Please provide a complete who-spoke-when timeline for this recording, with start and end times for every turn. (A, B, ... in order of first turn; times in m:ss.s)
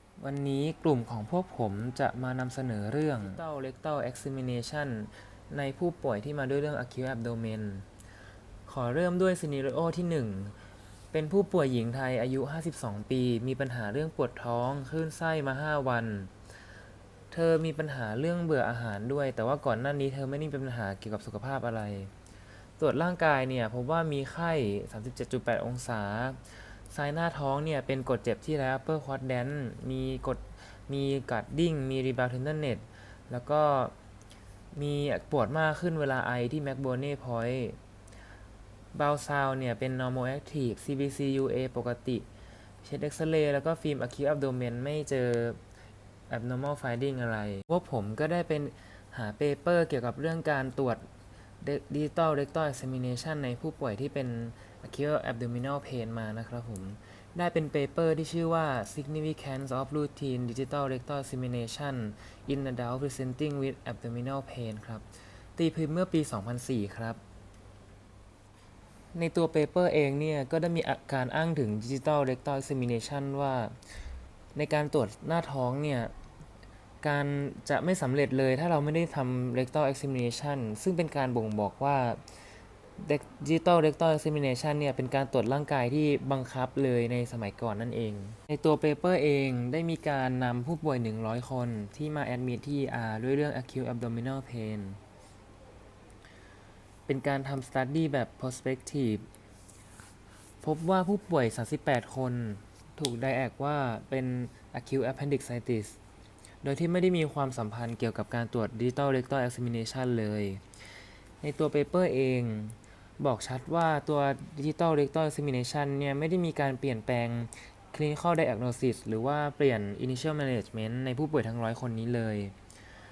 0:00.2-0:07.9 A
0:08.7-0:10.6 A
0:11.1-0:16.3 A
0:17.3-0:22.1 A
0:22.8-0:33.9 A
0:34.7-0:37.8 A
0:38.9-0:42.3 A
0:42.8-0:45.6 A
0:46.3-0:51.0 A
0:51.6-1:05.0 A
1:05.6-1:07.2 A
1:09.1-1:13.8 A
1:14.6-1:16.1 A
1:17.0-1:22.2 A
1:23.0-1:35.0 A
1:37.1-1:39.3 A
1:40.6-1:46.0 A
1:46.6-1:50.6 A
1:51.4-2:02.6 A